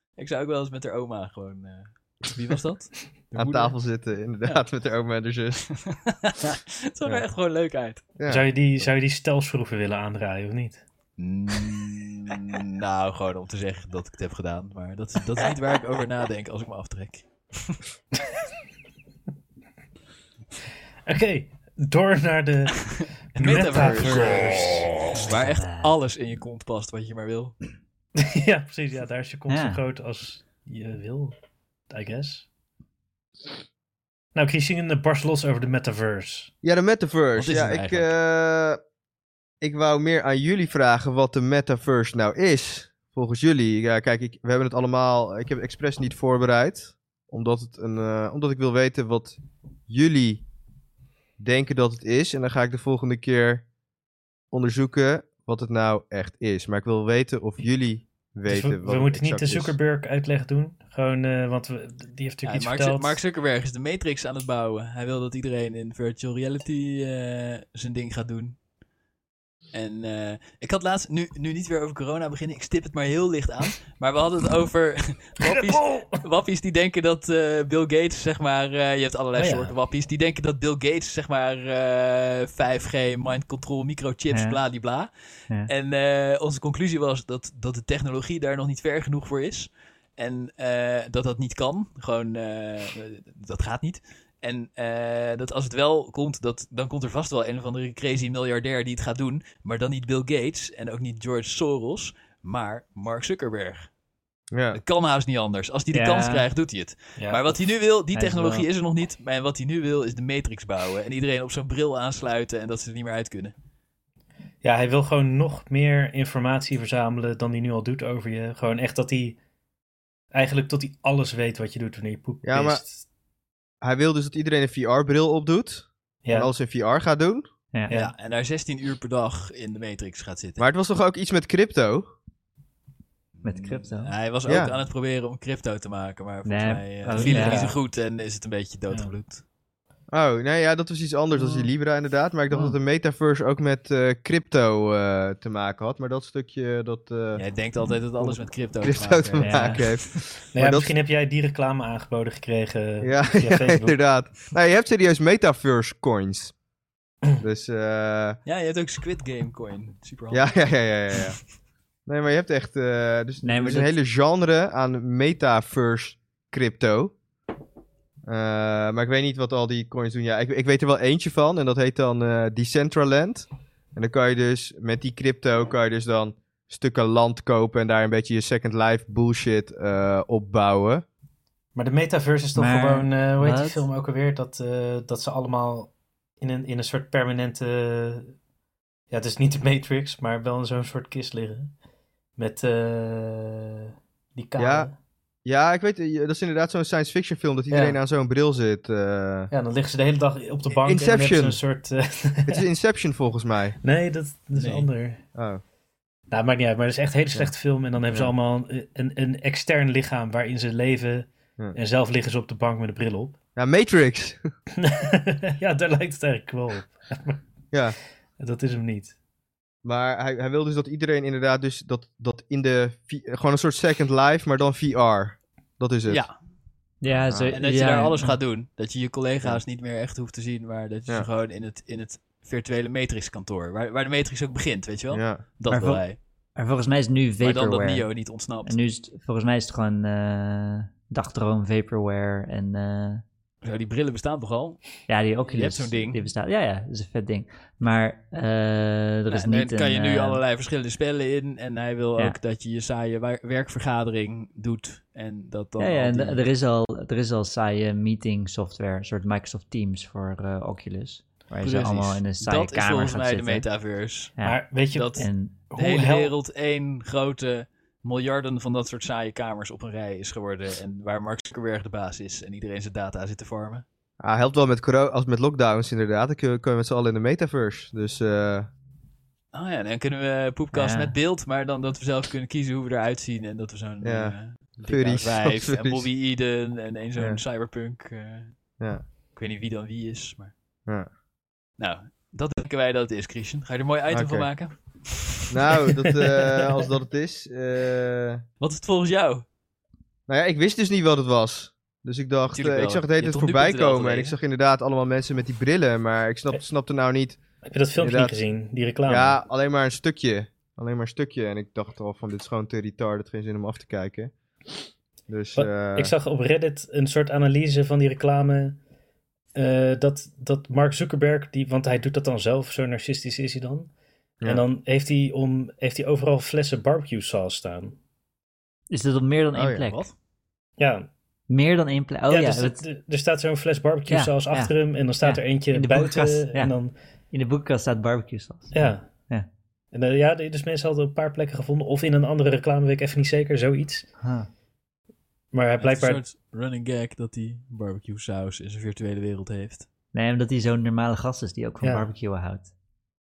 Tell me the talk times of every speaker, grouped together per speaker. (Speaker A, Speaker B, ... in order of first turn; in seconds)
Speaker A: 0.2-3.7, 5.7-8.1, 11.2-17.8, 23.4-27.6, 37.4-38.1, 62.4-68.6, 69.7-85.1, 85.7-103.9, 104.7-113.5, 127.9-130.7, 133.4-139.4, 147.3-150.0, 158.4-160.6, 204.6-204.9, 226.1-226.3, 227.5-236.2, 237.4-238.8, 243.6-246.3, 249.3-256.4, 261.6-264.3, 264.9-273.8, 279.5-288.6, 289.3-290.5, 291.8-295.5, 298.6-299.4, 302.5-304.3, 345.8-349.9
Speaker B: 3.4-5.7, 8.2-8.9, 36.6-38.8, 39.6-49.4, 49.9-50.4, 51.4-53.6, 54.5-59.8, 104.5-104.8, 122.4-122.8, 123.8-127.4, 130.6-132.1, 134.5-134.7, 140.1-147.4, 148.2-150.9, 153.0-156.5, 157.4-158.4, 160.3-161.4, 162.1-167.1, 168.2-181.0, 194.6-194.9, 195.4-199.5, 200.8-201.6, 202.5-203.8, 205.3-205.6, 213.6-214.4, 217.7-218.0, 219.8-226.2, 227.1-227.6, 235.1-235.4, 274.2-278.7, 284.0-286.1, 294.1-294.5, 295.5-298.4, 300.3-307.4, 308.0-308.4, 309.1-314.3, 315.3-316.1, 329.5-329.9
Speaker C: 8.3-10.8, 21.1-25.1, 28.2-31.3, 31.9-32.5, 34.3-36.5, 58.5-63.2, 75.4-76.2, 79.3-79.7, 107.2-107.5, 114.6-119.4, 120.3-123.0, 126.2-126.5, 127.9-128.1, 137.1-137.8, 150.5-153.9, 181.7-188.3, 189.1-191.7, 192.4-194.9, 197.7-198.0, 199.5-202.6, 203.8-205.2, 206.3-213.4, 214.8-217.4, 218.4-219.1, 264.4-266.3, 296.0-296.7, 307.6-309.4, 315.5-318.8, 319.5-323.9, 324.4-328.0, 330.8-331.1, 332.3-336.9, 338.7-339.1, 339.9-344.1, 345.5-346.2, 351.8-352.1
Speaker D: 25.5-25.9, 29.5-29.8, 84.3-84.6, 105.9-106.5, 108.1-108.7, 133.4-134.1, 136.4-137.7, 142.5-142.8, 149.4-149.8, 163.4-163.9, 182.6-183.8, 227.0-228.4, 235.7-243.2, 245.1-250.4, 255.8-263.7, 264.4-264.6, 265.1-265.5, 280.7-281.1, 328.9-330.1, 331.5-332.8, 334.1-336.7, 337.3-339.5, 344.2-344.5, 350.1-352.7